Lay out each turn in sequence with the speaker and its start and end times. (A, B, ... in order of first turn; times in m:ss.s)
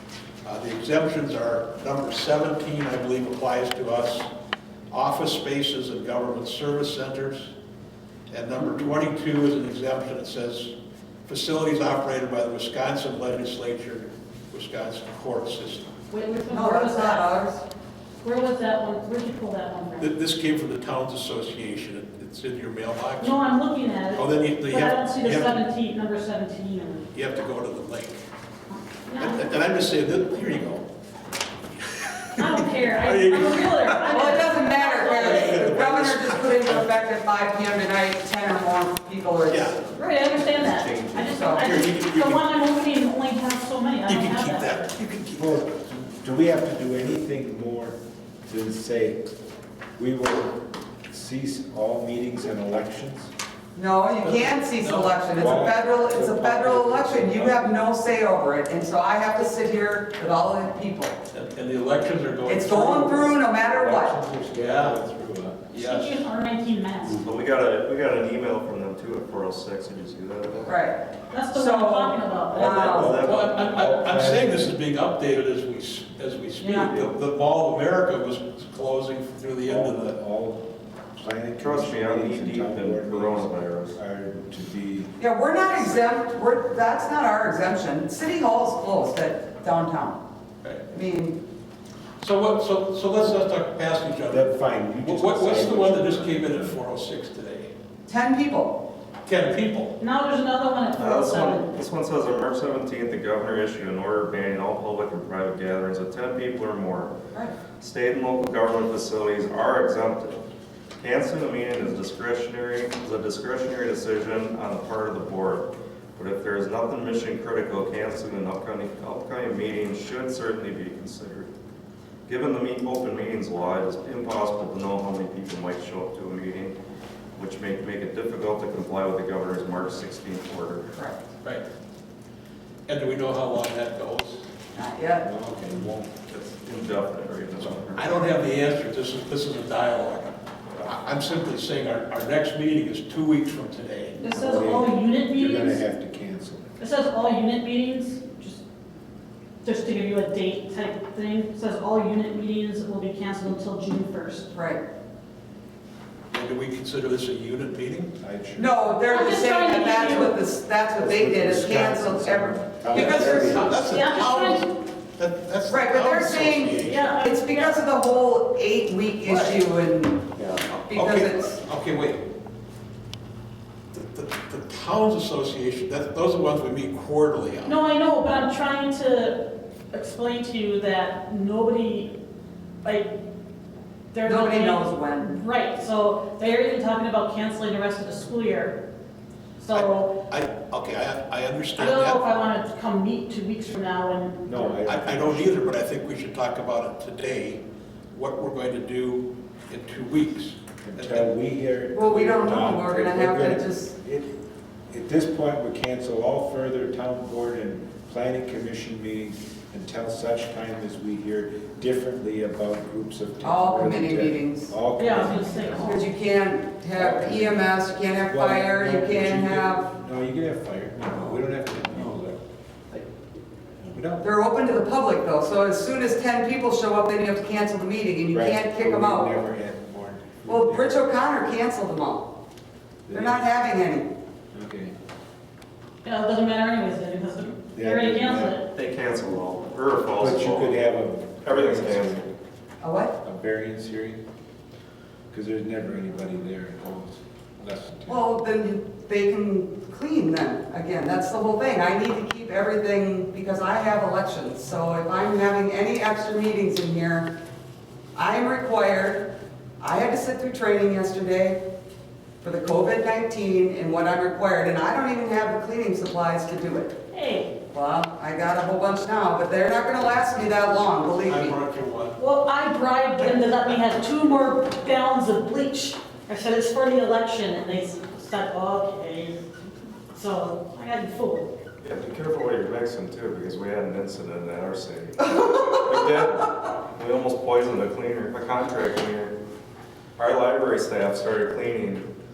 0:00.4-0:04.3 A
0:04.9-0:07.5 A
0:08.3-0:10.7 A
0:11.3-0:15.9 A
0:16.1-0:17.3 B
0:16.5-0:17.6 C
0:18.2-0:20.1 B
0:20.0-0:23.4 A
0:23.2-0:27.1 B
0:24.1-0:25.6 A
0:27.1-0:28.2 A
0:28.7-0:29.5 B
0:29.2-0:30.9 A
0:31.7-0:34.1 A
0:32.4-0:35.4 B
0:34.1-0:41.7 C
0:35.1-0:36.9 A
0:39.5-0:39.8 A
0:40.0-0:44.9 B
0:40.5-0:41.7 D
0:41.6-0:42.4 A
0:44.1-0:45.6 A
0:45.4-0:49.2 E
0:50.0-0:53.3 E
0:53.8-1:01.2 C
0:54.2-0:55.2 A
0:55.3-0:57.7 E
1:01.3-1:03.2 A
1:02.5-1:04.2 C
1:03.5-1:05.7 E
1:04.6-1:05.0 A
1:05.7-1:06.2 A
1:05.7-1:07.2 B
1:07.1-1:10.8 D
1:10.7-1:13.2 C
1:11.3-1:12.8 B
1:12.5-1:13.7 D
1:12.8-1:13.2 E
1:13.2-1:20.2 A
1:13.7-1:14.7 E
1:16.6-1:16.9 B
1:16.8-1:17.1 D
1:19.7-1:20.6 E
1:21.2-1:25.2 E
1:21.6-1:24.0 D
1:25.2-1:30.2 C
1:30.9-1:31.4 C
1:32.2-1:37.7 A
1:34.3-1:36.8 E
1:38.1-1:38.8 C
1:39.2-1:40.0 A
1:40.0-1:41.7 B
1:41.0-1:47.2 D
1:47.7-1:50.4 D
1:51.0-2:01.5 D
2:02.3-2:06.8 D
2:07.4-2:10.9 D
2:10.9-2:11.2 C
2:12.9-2:14.4 A
2:14.8-2:15.3 C
2:15.2-2:16.1 E
2:16.3-2:18.2 D
2:17.9-2:24.2 A
2:24.2-2:25.8 B
2:24.3-2:26.8 E
2:26.8-2:28.6 B
2:29.6-2:34.5 B
2:34.5-2:34.8 C
2:36.3-2:38.1 A
2:38.2-2:38.8 E
2:38.6-2:43.8 C
2:39.1-2:40.4 B
2:41.0-2:43.9 E
2:42.9-2:47.2 A
2:43.8-2:44.7 B
2:45.7-2:51.6 C
2:46.8-2:47.7 B
2:49.2-2:49.6 A
2:50.6-2:52.2 A
2:53.9-2:57.8 A
2:57.6-3:02.1 B
3:02.8-3:03.1 B
3:04.1-3:08.8 B
3:04.2-3:05.4 C
3:09.6-3:10.1 B
3:09.7-3:12.2 A
3:11.8-3:14.8 B
3:14.5-3:15.6 E
3:14.8-3:21.3 A
3:20.8-3:24.4 E
3:21.9-3:23.9 C
3:24.9-3:36.0 E
3:33.4-3:34.8 C
3:35.0-3:36.1 B
3:35.8-3:39.9 C
3:36.9-3:37.6 E
3:38.3-3:42.4 E
3:43.8-3:44.3 E
3:44.2-3:49.3 C
3:48.3-3:51.0 E
3:50.5-3:52.3 C
3:53.1-3:53.5 E
3:53.1-3:54.1 C
3:54.5-3:54.9 E
3:56.0-3:58.7 B
3:57.7-3:58.6 E
3:58.7-4:00.8 D
4:00.2-4:02.4 E
4:01.4-4:02.2 D
4:02.8-4:03.1 C
4:03.2-4:04.2 E
4:05.3-4:08.3 E
4:08.1-4:17.3 C
4:18.2-4:19.3 C
4:19.8-4:21.6 C
4:22.4-4:26.9 C
4:27.1-4:27.5 B
4:27.7-4:31.6 C
4:31.2-4:32.2 A
4:32.2-4:39.4 B
4:33.2-4:33.8 A
4:40.1-4:41.5 B
4:41.8-4:49.4 D
4:50.2-4:52.1 D